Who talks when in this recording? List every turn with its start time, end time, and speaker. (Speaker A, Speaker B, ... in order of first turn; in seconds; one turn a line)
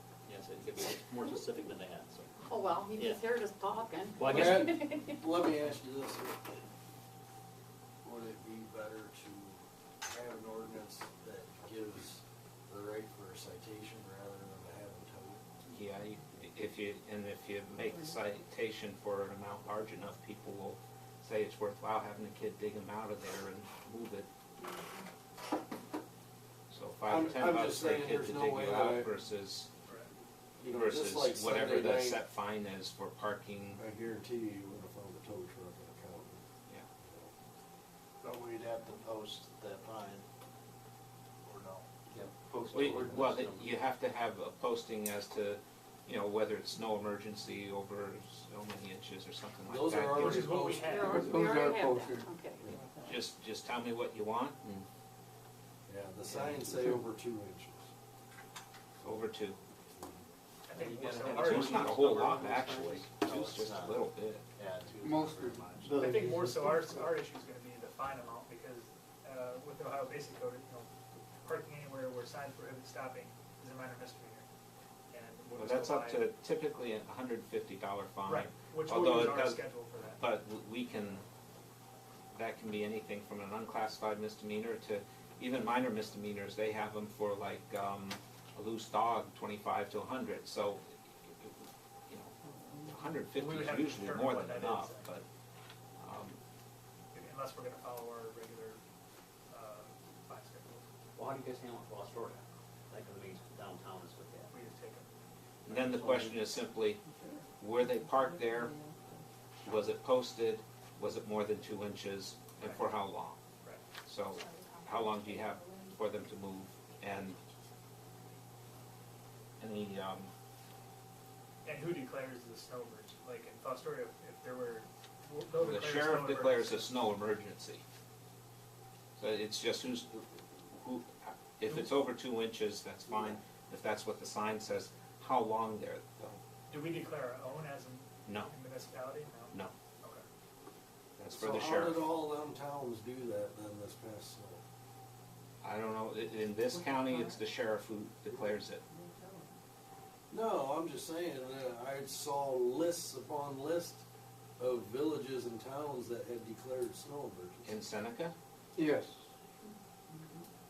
Speaker A: 0.2-2.4
Speaker B: 2.4-5.2
Speaker A: 2.9-3.2
Speaker A: 4.2-4.7
Speaker C: 4.3-6.6
Speaker C: 8.0-15.4
Speaker D: 15.7-24.3
Speaker B: 24.6-25.0
Speaker D: 26.7-29.7
Speaker C: 27.1-29.1
Speaker E: 29.8-30.1
Speaker C: 30.6-32.2
Speaker D: 30.6-33.8
Speaker C: 33.8-36.4
Speaker C: 37.0-37.3
Speaker F: 38.2-40.2
Speaker F: 41.5-41.8
Speaker A: 42.1-43.7
Speaker D: 42.7-50.5
Speaker C: 49.6-51.3
Speaker E: 50.1-51.1
Speaker B: 50.8-52.6
Speaker G: 51.0-52.3
Speaker D: 53.0-54.9
Speaker C: 55.9-57.9
Speaker D: 59.0-59.6
Speaker E: 60.7-62.4
Speaker A: 60.8-63.0
Speaker D: 61.3-64.4
Speaker F: 63.2-64.0
Speaker F: 64.6-65.9
Speaker G: 65.0-67.1
Speaker E: 65.9-70.9
Speaker E: 71.4-74.5
Speaker E: 75.1-76.3
Speaker D: 75.5-79.6
Speaker E: 78.2-80.2
Speaker D: 80.2-81.2
Speaker D: 82.3-95.2
Speaker E: 93.3-95.2
Speaker D: 96.0-96.4
Speaker E: 97.1-98.8
Speaker E: 99.5-100.8
Speaker A: 101.2-104.5
Speaker E: 104.5-105.1
Speaker D: 105.7-107.0
Speaker A: 105.7-106.4
Speaker D: 107.6-108.7
Speaker D: 109.6-113.4
Speaker E: 112.6-112.8
Speaker D: 114.0-117.4
Speaker D: 119.6-120.3
Speaker E: 121.6-126.9
Speaker D: 125.5-127.8
Speaker D: 129.2-130.2
Speaker D: 130.7-136.4
Speaker C: 133.1-133.4
Speaker E: 136.7-140.2
Speaker D: 138.2-138.5
Speaker D: 141.2-142.1
Speaker C: 141.3-144.6
Speaker D: 145.6-148.8
Speaker C: 150.3-154.0
Speaker C: 154.6-157.7
Speaker D: 157.6-158.3
Speaker G: 158.8-159.2